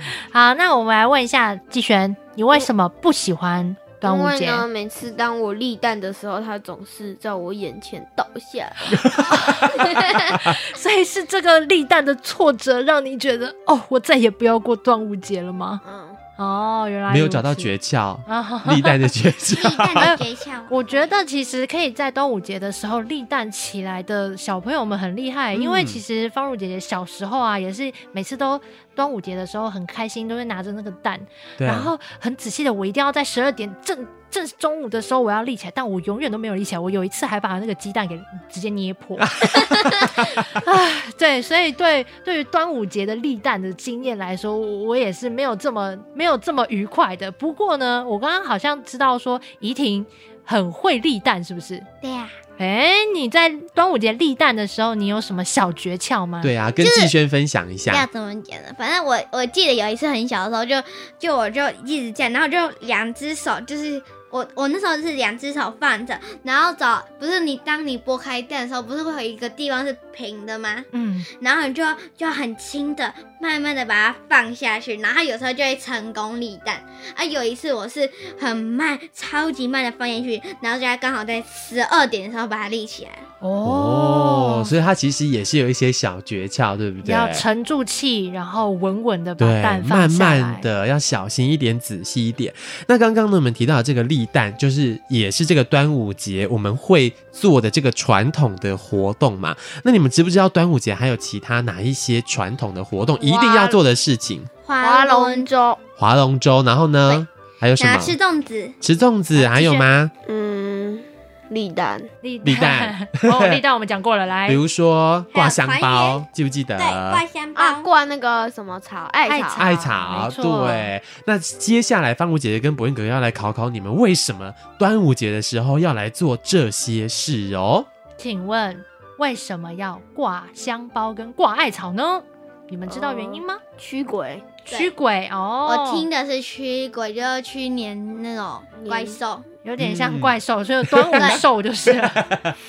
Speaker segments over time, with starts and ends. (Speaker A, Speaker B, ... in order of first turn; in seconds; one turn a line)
Speaker A: 0.3-4.7
Speaker B: 4.0-9.1
Speaker C: 8.9-9.4
Speaker A: 9.3-15.8
Speaker B: 15.8-16.2
Speaker A: 16.4-17.7
Speaker C: 17.1-20.2
Speaker A: 18.2-19.0
Speaker D: 19.5-21.0
Speaker A: 20.0-51.9
Speaker C: 25.5-26.0
Speaker C: 31.6-31.9
Speaker C: 39.5-39.7
Speaker D: 52.0-52.3
Speaker A: 52.6-56.5
Speaker C: 56.4-58.1
Speaker D: 56.8-57.1
Speaker D: 57.9-83.2
Speaker A: 70.9-71.3
Speaker A: 83.4-84.7
Speaker C: 83.6-87.5
Speaker A: 87.0-90.7
Speaker C: 89.4-104.5
Speaker D: 103.2-103.8
Speaker D: 104.6-105.5
Speaker B: 104.8-105.8
Speaker C: 106.0-108.2
Speaker D: 107.8-108.8
Speaker C: 108.8-110.1
Speaker A: 109.3-109.9
Speaker B: 110.2-112.0
Speaker A: 112.2-114.6
Speaker C: 112.4-113.6
Speaker C: 114.5-117.2
Speaker D: 115.3-116.2
Speaker D: 116.8-117.9
Speaker B: 117.5-119.6
Speaker A: 119.2-120.9
Speaker C: 119.6-127.9
Speaker A: 128.2-133.6
Speaker B: 132.9-134.5
Speaker A: 134.6-136.1
Speaker D: 134.7-134.9
Speaker D: 135.6-139.4
Speaker B: 138.8-139.2
Speaker A: 139.6-142.3
Speaker C: 139.8-142.5
Speaker D: 141.1-141.4